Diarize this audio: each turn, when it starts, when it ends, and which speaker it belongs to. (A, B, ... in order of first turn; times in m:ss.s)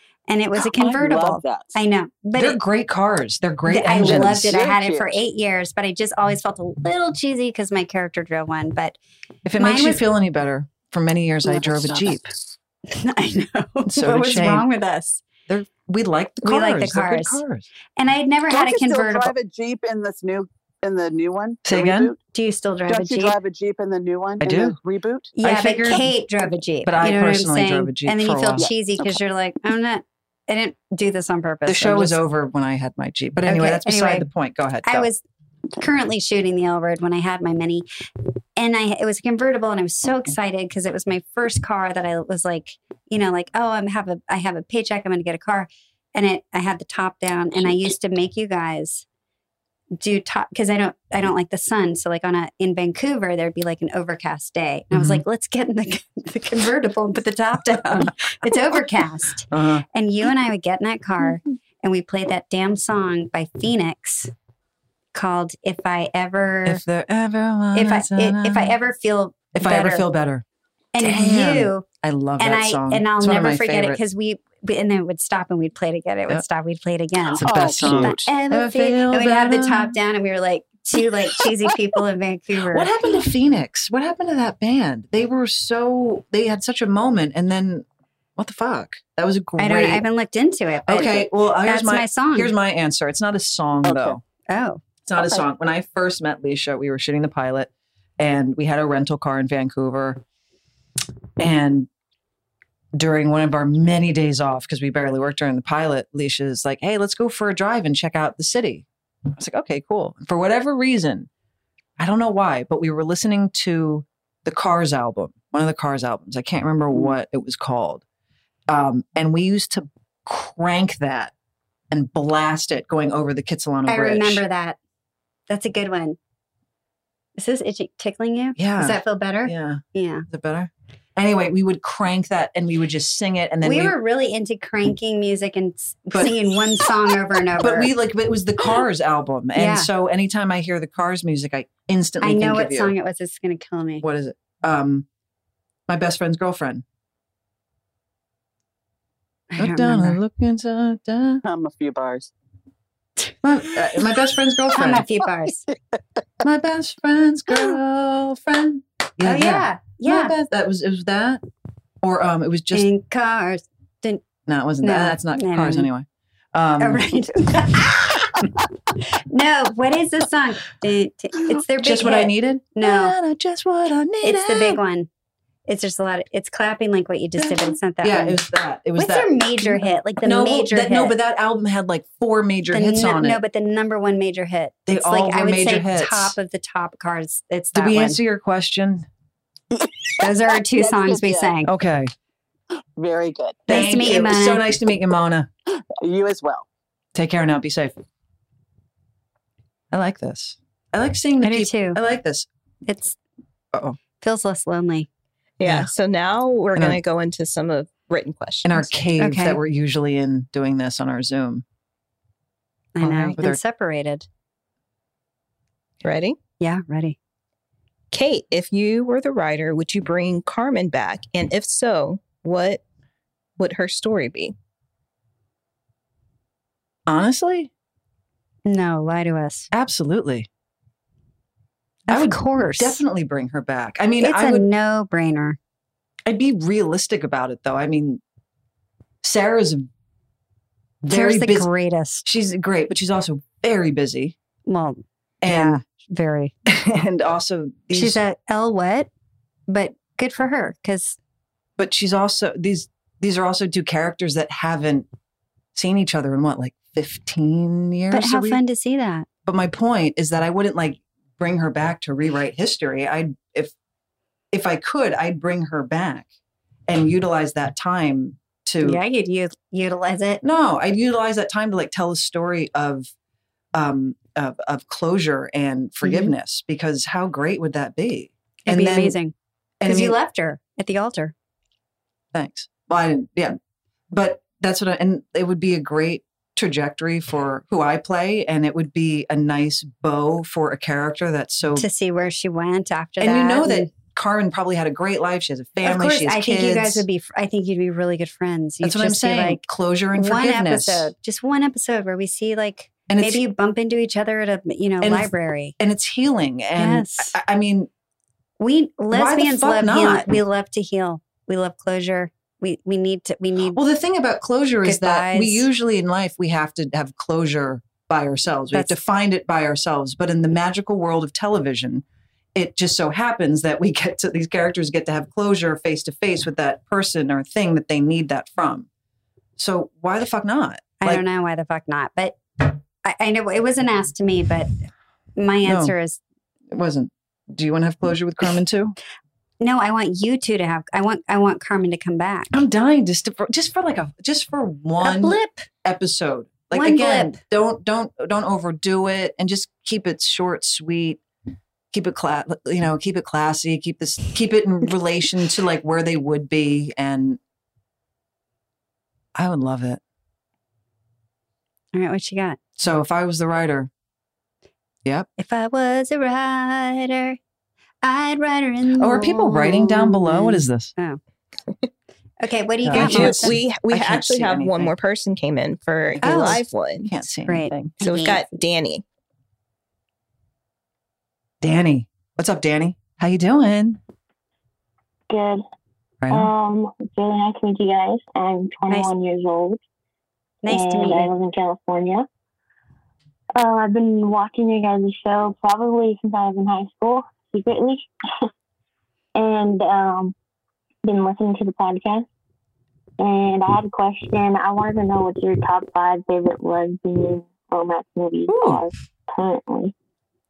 0:00.3-0:02.6 A
0:00.6-0:01.8 B
0:02.3-0:04.5 C
0:03.7-0:09.0 A
0:04.0-0:05.2 B
0:09.4-0:12.3 C
0:09.6-0:10.0 A
0:12.9-0:15.2 A
0:13.8-0:14.7 C
0:15.5-0:17.7 C
0:16.4-0:17.4 A
0:18.0-0:19.3 A
0:18.5-0:22.2 B
0:21.6-0:22.1 C
0:22.3-0:23.4 A
0:22.9-0:25.3 B
0:24.4-0:24.8 C
0:25.4-0:32.2 A
0:25.4-0:26.1 C
0:26.8-0:28.7 C
0:28.6-0:29.2 B
0:31.6-0:35.1 C
0:33.4-0:34.3 A
0:34.8-0:35.2 A
0:35.8-0:37.8 A
0:38.6-0:49.0 A
0:50.0-1:04.3 A
0:54.9-0:55.2 C
0:58.0-0:58.5 C
0:59.5-0:59.8 C
1:05.1-1:06.8 A
1:06.6-1:08.7 C
1:07.7-1:10.1 A
1:09.5-1:10.4 C
1:10.9-1:11.8 A
1:11.0-1:14.0 C
1:12.4-1:22.9 A
1:17.3-1:20.0 C
1:17.4-1:18.2 B
1:22.7-1:27.8 C
1:28.4-1:30.0 C
1:29.6-1:32.5 A
1:30.9-1:34.2 C
1:33.8-1:34.2 B
1:34.5-1:34.8 A
1:35.0-1:40.2 C
1:41.4-1:41.9 C
1:42.9-1:51.3 C
1:52.0-1:58.0 C
1:58.7-2:01.3 C
2:01.9-2:04.4 C
2:03.8-2:04.8 A
2:05.5-2:06.2 A
2:07.4-2:10.3 A
2:08.6-2:13.9 C
2:13.6-2:17.9 A
2:16.1-2:16.8 C
2:17.6-2:22.9 C
2:19.5-2:19.9 A
2:22.2-2:24.0 A
2:24.0-2:25.0 C
2:25.9-2:26.8 C
2:29.5-2:30.2 A
2:29.6-2:31.4 C
2:31.4-2:32.3 B
2:33.4-2:35.1 C
2:34.7-2:35.6 A
2:36.4-2:41.4 C
2:39.2-2:40.3 A
2:42.0-2:42.8 C
2:42.7-2:44.2 A
2:44.4-2:47.1 C
2:44.8-2:45.9 A
2:46.8-2:48.4 A
2:49.2-2:53.1 A
2:51.8-2:54.8 C
2:54.2-2:55.1 A
2:55.7-2:58.4 A
2:57.4-3:03.4 C
2:59.0-3:01.2 A
3:02.7-3:08.2 A
3:04.8-3:06.4 C
3:07.7-3:09.1 C
3:09.7-3:11.6 B
3:10.2-3:11.7 A
3:11.6-3:12.1 C
3:13.0-3:13.9 B
3:13.7-3:14.6 A
3:13.7-3:15.5 C
3:16.0-3:16.6 B
3:17.1-3:17.9 C
3:19.9-3:22.5 C
3:21.4-3:22.0 A
3:22.8-3:23.2 A
3:24.2-3:25.1 A
3:25.6-3:28.9 D
3:25.6-3:25.9 C
3:26.7-3:27.0 C
3:28.6-3:31.6 C
3:29.2-3:29.6 A
3:32.9-3:34.3 A
3:33.0-3:33.6 C
3:36.0-3:36.4 D
3:36.6-3:37.2 A
3:38.1-3:42.8 D
3:43.6-3:44.5 D
3:47.1-3:47.7 C
3:48.6-3:49.7 A
3:49.7-3:50.5 C
3:52.1-3:53.0 A
3:52.1-3:54.7 C
3:54.2-3:55.6 A
3:56.2-3:58.2 C
3:59.2-3:59.9 C
4:01.0-4:01.7 C
4:01.1-4:02.2 A
4:02.2-4:04.3 C
4:04.7-4:06.5 A
4:05.4-4:05.8 C
4:06.6-4:08.2 C
4:07.9-4:09.1 A
4:09.7-4:11.2 A
4:11.8-4:15.1 C
4:15.7-4:18.6 C
4:18.1-4:19.2 A
4:19.4-4:23.7 C
4:24.5-4:26.2 C
4:26.9-4:29.0 C
4:28.8-4:30.4 A
4:30.4-4:33.1 C
4:33.7-4:39.2 C
4:36.0-4:36.3 A
4:38.6-4:39.3 A
4:39.8-4:40.2 C
4:39.8-4:41.3 A
4:42.3-4:43.6 C
4:44.1-4:51.9 C
4:51.8-4:53.9 A
4:53.2-4:57.0 C
4:55.8-4:59.6 A
4:58.8-5:01.1 C
5:00.1-5:05.7 A
5:03.1-5:03.4 C
5:05.0-5:07.9 C
5:06.8-5:07.3 A
5:08.6-5:13.8 A
5:09.1-5:10.3 C
5:13.7-5:22.0 C
5:14.8-5:15.7 A
5:18.7-5:19.0 A
5:22.5-5:28.9 C
5:29.6-5:31.2 C
5:31.0-5:34.8 A
5:35.4-5:36.2 A
5:35.6-5:35.9 C
5:36.7-5:39.0 C
5:39.6-5:42.6 A
5:42.5-5:51.2 C
5:45.0-5:45.6 A
5:46.7-5:47.4 A
5:51.9-5:57.4 C
5:59.3-6:00.0 C
6:01.9-6:02.6 A
6:02.8-6:03.9 C
6:05.4-6:07.4 A
6:08.0-6:11.2 A
6:09.0-6:10.9 C
6:12.4-6:13.5 A
6:12.8-6:14.9 C
6:12.9-6:17.1 D
6:16.1-6:17.9 C
6:16.2-6:16.6 A
6:17.4-6:18.5 A
6:18.0-6:19.0 D
6:21.6-6:24.0 C
6:25.3-6:25.6 E
6:26.2-6:26.5 C
6:26.3-6:29.8 E
6:30.6-6:31.3 A
6:30.7-6:32.2 E
6:33.5-6:38.1 E
6:39.3-6:40.3 E
6:41.0-6:42.3 E
6:43.2-6:49.9 E
6:48.5-6:48.9 C